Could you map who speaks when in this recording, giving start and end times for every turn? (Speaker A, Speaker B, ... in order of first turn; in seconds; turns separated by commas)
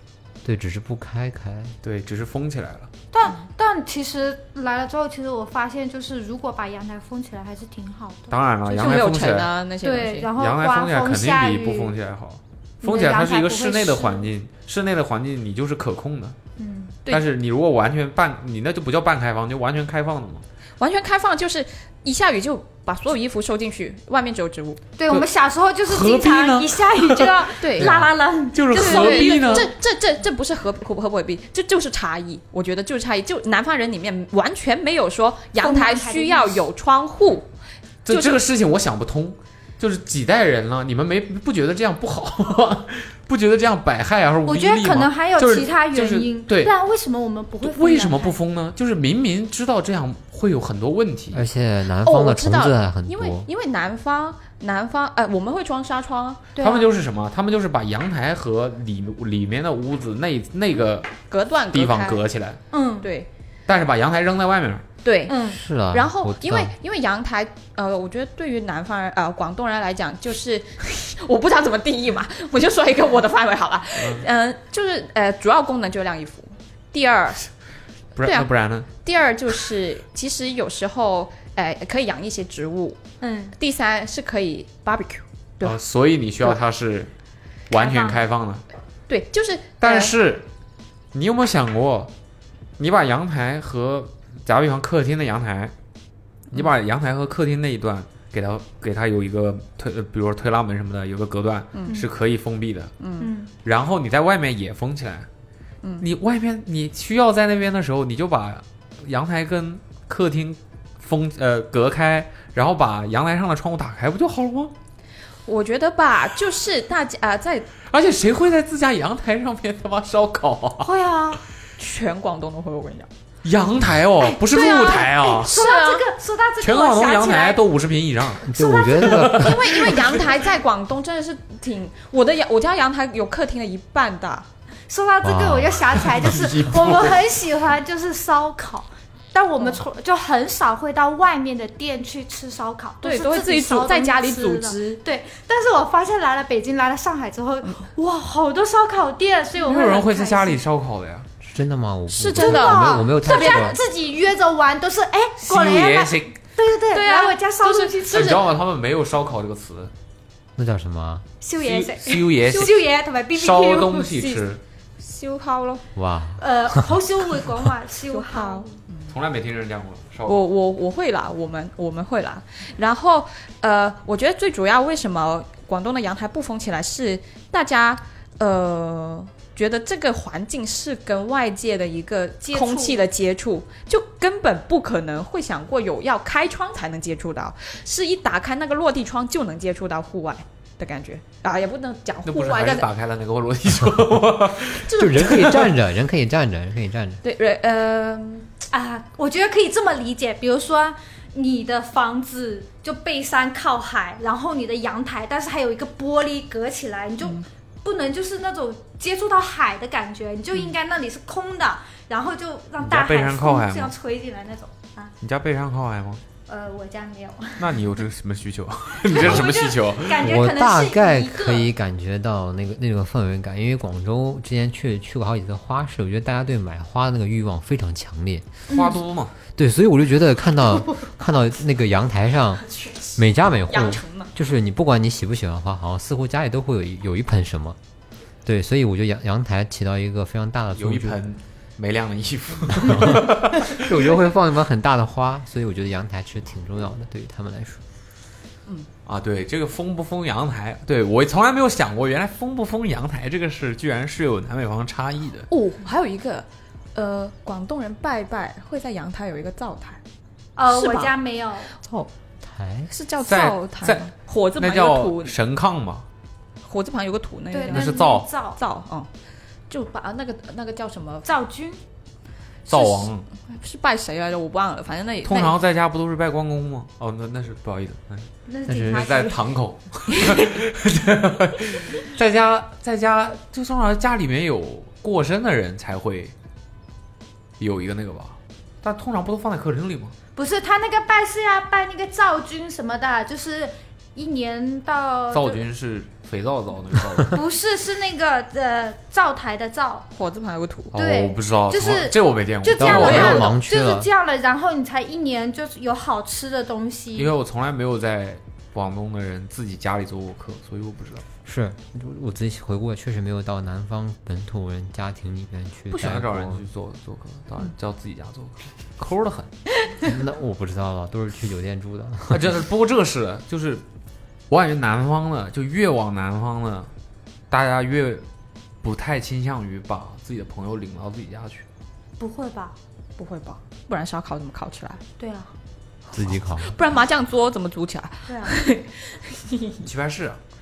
Speaker A: 0.4-1.8, Speaker B: 1.8-2.9, Speaker C: 3.1-9.0, Speaker B: 8.3-9.5, Speaker D: 8.7-10.3, Speaker C: 9.8-11.9, Speaker B: 10.3-16.4, Speaker C: 12.8-14.3, Speaker C: 16.6-16.9, Speaker B: 17.1-20.4, Speaker D: 20.8-24.8, Speaker C: 25.0-29.7, Speaker B: 25.9-29.7, Speaker D: 27.6-27.9, Speaker D: 28.7-37.5, Speaker C: 35.6-36.7, Speaker B: 38.0-46.7, Speaker D: 38.1-38.4, Speaker C: 44.5-48.4, Speaker B: 47.6-51.5, Speaker A: 51.3-53.5, Speaker D: 52.0-56.5, Speaker C: 56.6-56.9, Speaker B: 56.6-61.1, Speaker D: 61.3-62.2, Speaker B: 61.7-62.6, Speaker C: 62.7-63.1, Speaker D: 63.0-63.3, Speaker B: 63.7-64.8, Speaker D: 65.0-65.4, Speaker C: 65.3-65.6, Speaker A: 65.5-66.7, Speaker D: 65.9-77.5, Speaker B: 74.0-74.3, Speaker B: 78.2-78.9, Speaker D: 78.2-78.5, Speaker D: 79.0-83.0, Speaker C: 83.2-83.6, Speaker D: 83.6-85.8, Speaker B: 85.6-87.1, Speaker B: 87.7-88.6, Speaker C: 87.8-88.2, Speaker D: 89.1-90.2, Speaker B: 89.8-90.5, Speaker B: 91.1-92.1, Speaker B: 92.8-95.7, Speaker B: 96.5-102.9, Speaker D: 101.7-102.0, Speaker D: 103.0-103.3, Speaker C: 103.2-103.5, Speaker B: 103.6-105.3, Speaker D: 105.8-106.1, Speaker B: 106.0-114.7, Speaker D: 115.5-117.7, Speaker B: 117.9-120.9, Speaker C: 120.8-121.4, Speaker D: 121.8-123.1, Speaker B: 123.4-125.5, Speaker C: 124.2-127.6, Speaker D: 124.5-126.1, Speaker B: 126.6-130.2, Speaker A: 128.4-129.8, Speaker C: 128.6-129.1, Speaker D: 129.3-134.5, Speaker C: 134.9-150.6, Speaker A: 135.2-136.3, Speaker B: 136.2-137.2, Speaker D: 143.0-145.0, Speaker B: 149.6-151.3, Speaker A: 151.4-153.8, Speaker D: 152.1-153.8, Speaker C: 152.4-158.4, Speaker B: 155.4-156.4, Speaker D: 156.9-158.5, Speaker B: 158.1-159.9, Speaker A: 160.6-161.3, Speaker C: 161.4-164.1, Speaker B: 161.6-164.6, Speaker D: 164.2-164.4, Speaker D: 165.0-165.8, Speaker A: 165.9-167.0, Speaker C: 166.4-168.7, Speaker D: 168.1-169.1, Speaker B: 169.1-170.4, Speaker D: 170.3-192.9, Speaker C: 182.5-183.1, Speaker B: 192.2-195.7, Speaker D: 194.8-195.7, Speaker A: 194.9-197.2, Speaker D: 197.2-198.5, Speaker C: 198.7-215.1, Speaker B: 212.8-213.9, Speaker B: 215.2-216.2, Speaker C: 216.5-217.7, Speaker B: 217.6-220.4, Speaker C: 219.0-221.7, Speaker A: 220.2-228.5, Speaker B: 228.7-229.3, Speaker A: 229.6-232.7, Speaker D: 232.8-234.3, Speaker A: 233.2-237.8, Speaker A: 238.4-241.2, Speaker B: 240.8-243.9, Speaker A: 242.7-247.8, Speaker B: 249.1-255.5, Speaker D: 255.5-260.0, Speaker C: 260.6-261.7, Speaker D: 260.7-261.1, Speaker A: 261.8-262.9, Speaker D: 262.9-265.4, Speaker B: 263.2-266.1, Speaker D: 266.6-269.1, Speaker C: 267.5-268.6, Speaker B: 267.7-268.3, Speaker D: 269.7-271.3, Speaker C: 271.2-271.8, Speaker D: 272.7-275.6, Speaker B: 272.7-273.3, Speaker B: 275.2-278.3, Speaker C: 278.5-279.4, Speaker A: 278.7-279.1, Speaker B: 278.9-286.3, Speaker B: 287.6-290.1, Speaker C: 290.4-295.6, Speaker B: 295.3-297.4, Speaker C: 297.3-300.1, Speaker D: 300.1-300.9, Speaker B: 300.9-303.5, Speaker C: 300.9-307.3, Speaker A: 302.8-304.1, Speaker D: 303.0-303.4, Speaker B: 307.1-311.2, Speaker A: 311.4-316.6, Speaker B: 315.9-319.5, Speaker A: 320.0-322.6, Speaker B: 322.3-323.8, Speaker B: 324.5-326.9, Speaker B: 327.5-328.3, Speaker B: 328.8-331.6, Speaker C: 332.2-332.8, Speaker D: 333.2-335.0, Speaker C: 335.2-335.5, Speaker A: 336.1-336.8, Speaker D: 336.6-339.8, Speaker C: 338.3-338.6, Speaker B: 339.8-340.4